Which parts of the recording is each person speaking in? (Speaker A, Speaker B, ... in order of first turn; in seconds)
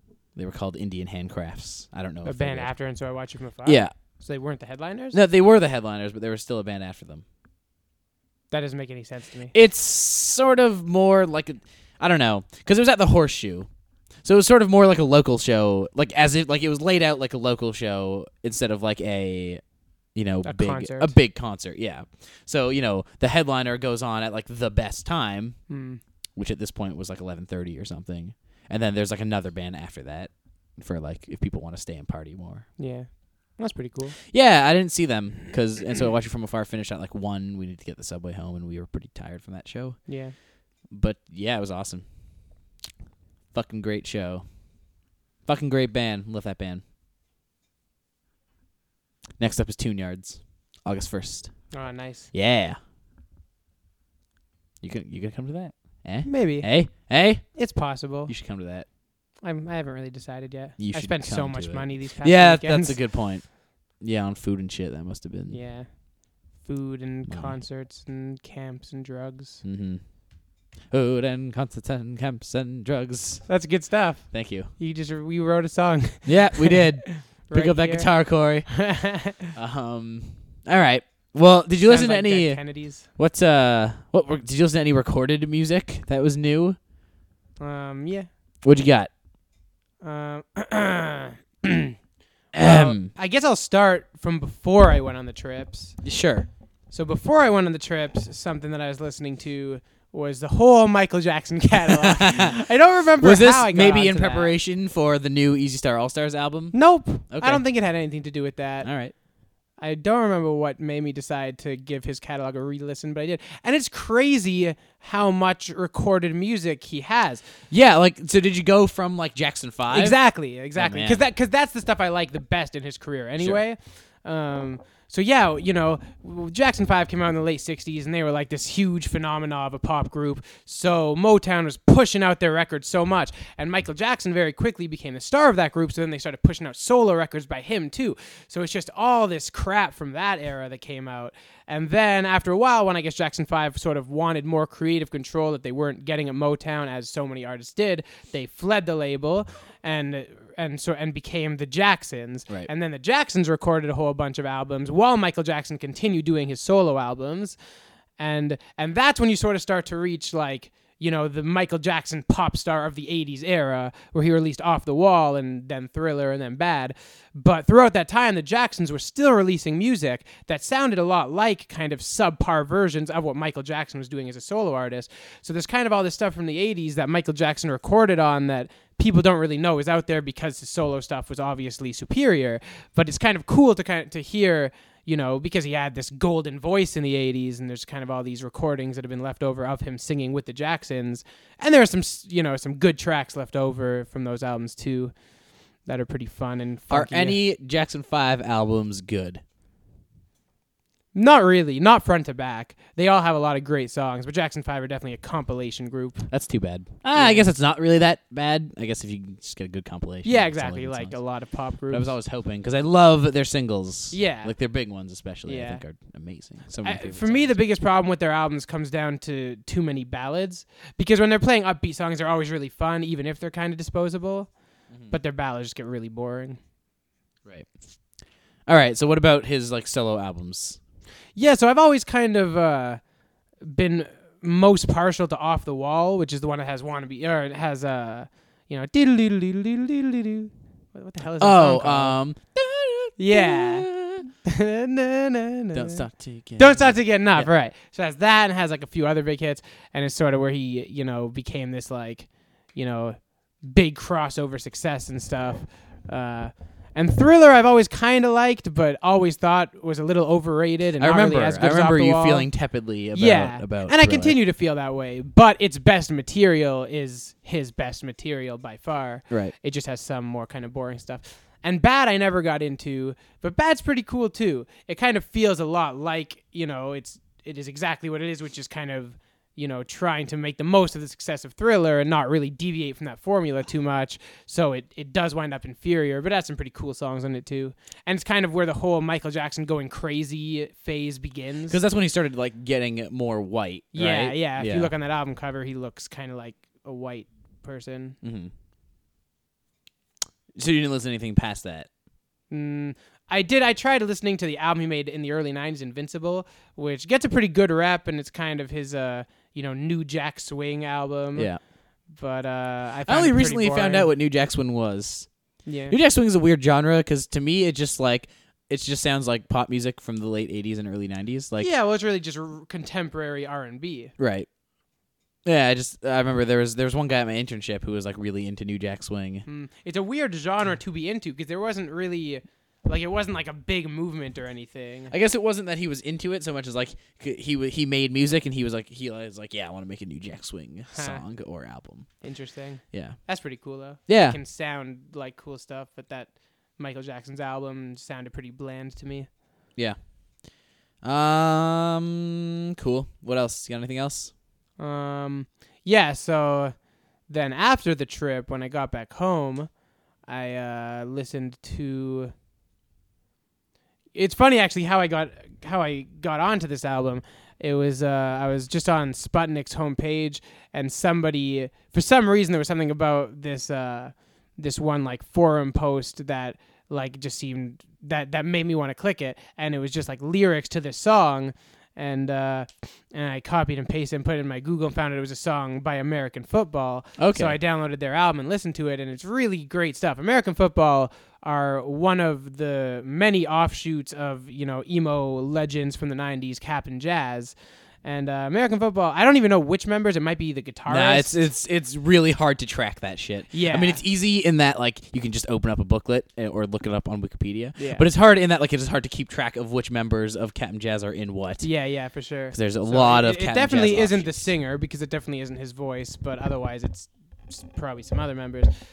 Speaker A: 0.3-2.7, 3.6-3.9, 5.1-7.2, 9.5-13.7, 14.2-25.6, 26.4-32.7, 34.3-40.0, 40.9-42.1, 43.5-44.5, 45.4-46.8, 49.4-51.7, 52.3-52.8, 54.8-57.6, 58.3-58.9, 60.8-65.6, 67.3-67.5, 69.6-70.1, 70.9-73.5, 74.3-74.7, 76.2-78.8, 79.5-86.8, 88.6-89.1, 92.5-93.1, 96.0-96.5, 102.0-102.6, 103.2-107.6, 108.8-109.1, 117.7-120.2, 120.8-121.2, 196.9-199.4, 206.3-211.2, 211.9-217.6, 224.9-225.1, 228.7-230.8, 241.4-244.3, 245.7-247.5, 261.0-264.4, 291.7-294.9, 298.2-298.5, 300.6-301.9, 311.4-311.6, 313.1-315.3, 315.9-321.7, 324.2-324.5, 325.4-329.4, 335.1-342.1, 342.9-343.2, 344.1-344.4, 351.0-354.3, 387.2-387.6, 400.9-411.7, 412.5-414.5
Speaker B: 2.2-5.2, 8.5-9.5, 20.4-21.1, 25.7-26.0, 32.8-34.2, 40.1-40.4, 51.7-52.3, 56.2-56.7, 57.4-58.3, 59.4-63.0, 65.5-69.6, 73.5-78.1, 78.7-79.5, 81.8-83.1, 87.6-88.3, 90.0-91.9, 92.6-96.0, 96.9-104.5, 106.7-108.9, 109.8-117.4, 119.9-157.6, 158.2-195.1, 195.8-197.4, 201.1-206.3, 207.1-207.5, 210.2-212.1, 214.1-214.5, 215.4-215.8, 216.8-224.6, 225.1-226.6, 231.4-233.0, 233.6-242.2, 243.2-246.0, 246.6-262.5, 263.1-291.8, 293.9-298.2, 302.5-311.5, 312.1-314.1, 315.6-315.9, 321.6-324.1, 329.4-335.1, 340.9-341.2, 342.2-349.3, 354.8-356.7, 357.3-359.7, 360.3-362.3, 364.1-401.4, 403.5-404.0, 407.8-408.0, 411.6-418.7